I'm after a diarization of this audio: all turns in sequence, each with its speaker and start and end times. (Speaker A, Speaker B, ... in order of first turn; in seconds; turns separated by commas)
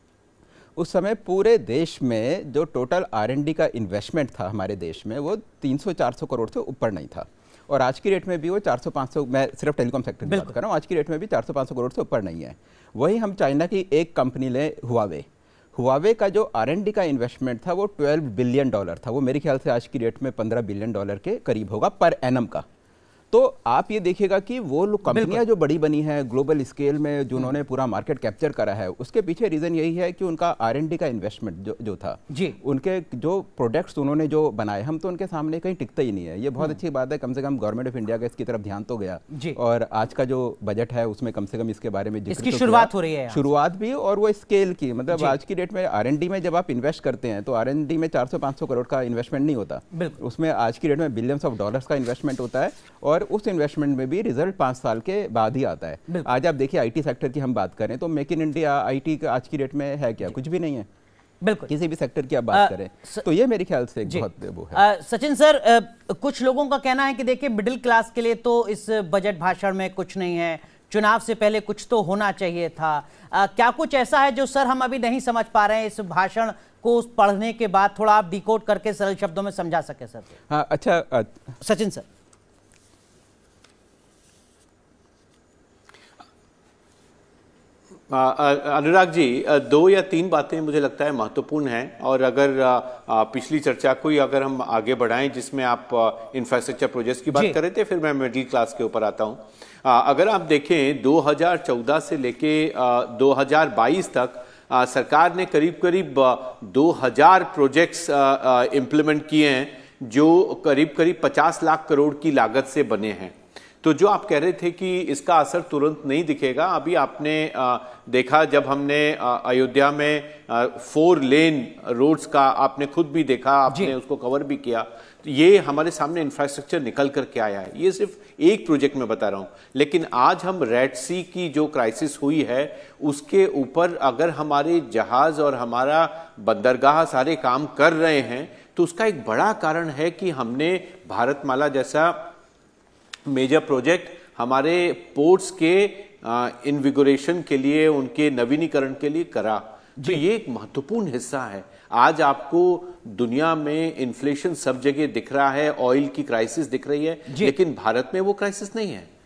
Speaker A: 0.8-22.6, Speaker B: 10.3-10.6, Speaker A: 23.3-60.9, Speaker B: 25.1-25.4, Speaker B: 32.3-32.6, Speaker B: 39.3-39.6, Speaker B: 42.3-43.4, Speaker B: 61.4-61.7, Speaker A: 61.7-64.8, Speaker B: 62.5-63.2, Speaker B: 64.1-80.3, Speaker A: 80.5-81.4, Speaker B: 81.6-82.0, Speaker C: 88.1-142.3, Speaker B: 123.7-123.9, Speaker C: 143.2-159.1, Speaker B: 157.3-157.5